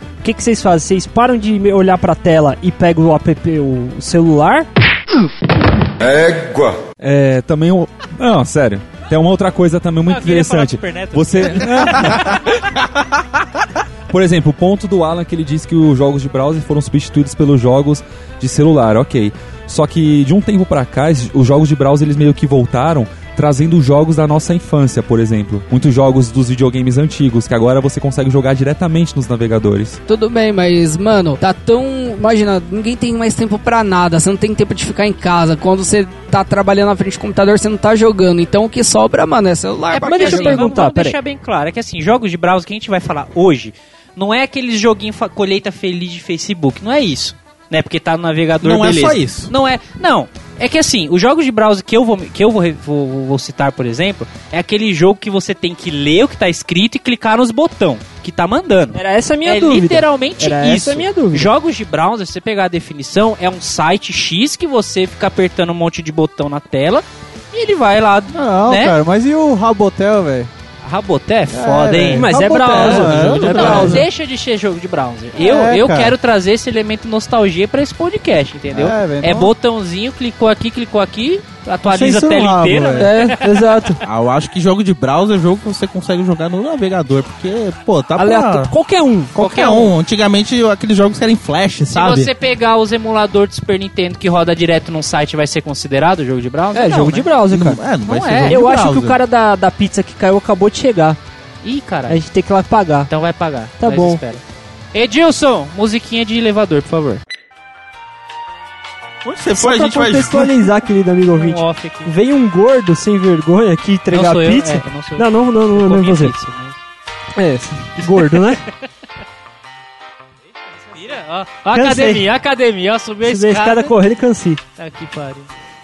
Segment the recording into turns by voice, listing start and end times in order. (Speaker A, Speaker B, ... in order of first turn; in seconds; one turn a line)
Speaker A: 0.2-4.7
Speaker B: 6.1-12.6
Speaker C: 10.1-12.3
Speaker B: 14.1-30.0
Speaker D: 30.1-40.6
Speaker C: 39.9-69.0
Speaker A: 40.0-41.1
Speaker E: 48.6-49.5
Speaker A: 58.9-61.5
Speaker F: 68.3-70.5
Speaker C: 70.8-83.4
Speaker F: 71.5-74.0
Speaker A: 72.2-74.0
Speaker E: 72.7-74.0
Speaker F: 75.4-76.1
Speaker F: 78.7-79.5
Speaker F: 81.8-83.2
Speaker A: 83.0-84.0
Speaker E: 84.0-88.7
Speaker A: 88.2-89.3
Speaker E: 89.3-92.3
Speaker C: 89.4-90.0
Speaker C: 91.9-97.3
Speaker A: 96.7-97.8
Speaker E: 97.5-99.2
Speaker C: 98.0-98.6
Speaker A: 98.5-101.2
Speaker C: 101.6-102.2
Speaker A: 102.1-103.1
Speaker C: 103.1-104.4
Speaker A: 103.8-104.2
Speaker C: 104.9-107.2
Speaker E: 109.2-110.5
Speaker A: 109.5-116.3
Speaker C: 111.3-112.1
Speaker C: 114.1-116.8
Speaker A: 117.3-118.6
Speaker C: 118.0-118.4
Speaker C: 120.9-123.9
Speaker A: 121.7-122.2
Speaker A: 123.2-124.6
Speaker C: 124.8-125.5